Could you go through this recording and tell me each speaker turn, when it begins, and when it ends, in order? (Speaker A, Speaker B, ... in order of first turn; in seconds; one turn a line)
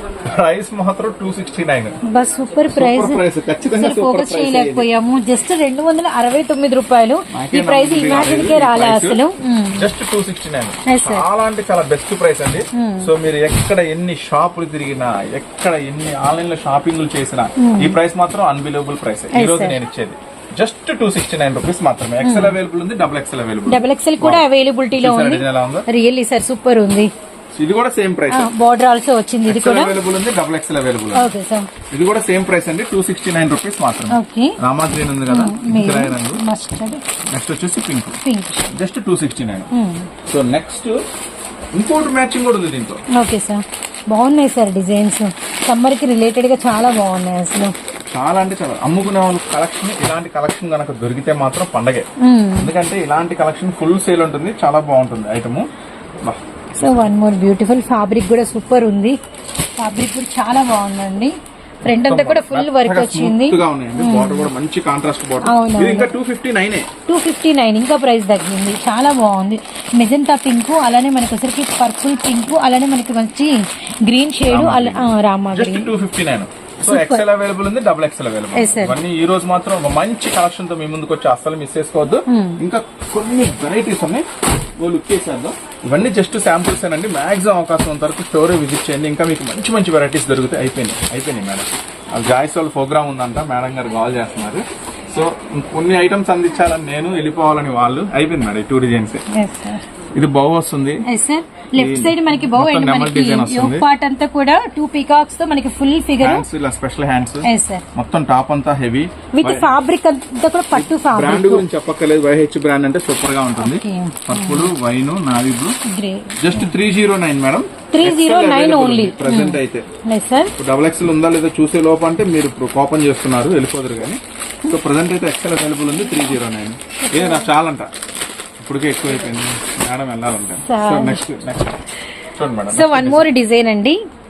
Speaker A: 0.2-2.0
Speaker B: 2.0-9.8
Speaker A: 2.7-4.8
Speaker A: 7.3-9.2
Speaker A: 9.7-25.9
Speaker B: 10.8-11.2
Speaker B: 12.7-13.1
Speaker B: 17.6-17.9
Speaker B: 19.3-19.8
Speaker B: 22.2-22.6
Speaker B: 23.7-27.1
Speaker A: 27.5-28.5
Speaker B: 28.3-30.0
Speaker A: 29.4-31.3
Speaker B: 31.1-31.7
Speaker A: 31.9-36.4
Speaker B: 34.1-34.6
Speaker B: 35.3-37.0
Speaker A: 37.3-38.2
Speaker B: 38.2-38.7
Speaker A: 38.7-39.7
Speaker B: 39.7-40.1
Speaker A: 40.3-41.0
Speaker A: 41.7-43.0
Speaker B: 43.1-47.7
Speaker A: 48.1-55.7
Speaker B: 52.2-52.7
Speaker A: 56.2-57.1
Speaker B: 56.8-59.2
Speaker B: 59.8-64.5
Speaker A: 61.9-66.9
Speaker B: 65.4-66.1
Speaker B: 67.1-75.9
Speaker A: 74.5-84.3
Speaker B: 76.8-77.2
Speaker B: 78.5-79.0
Speaker B: 82.3-82.6
Speaker A: 84.8-99.2
Speaker B: 99.3-99.8
Speaker A: 100.2-101.0
Speaker B: 101.0-106.5
Speaker A: 101.7-103.8
Speaker A: 106.2-109.7
Speaker B: 107.4-107.8
Speaker B: 109.3-111.7
Speaker A: 110.7-115.8
Speaker B: 113.6-114.7
Speaker B: 115.8-116.6
Speaker A: 116.4-119.9
Speaker B: 117.9-120.5
Speaker A: 120.5-127.9
Speaker B: 127.0-127.5
Speaker A: 128.6-131.8
Speaker B: 130.6-131.2
Speaker A: 132.3-133.3
Speaker B: 132.7-134.0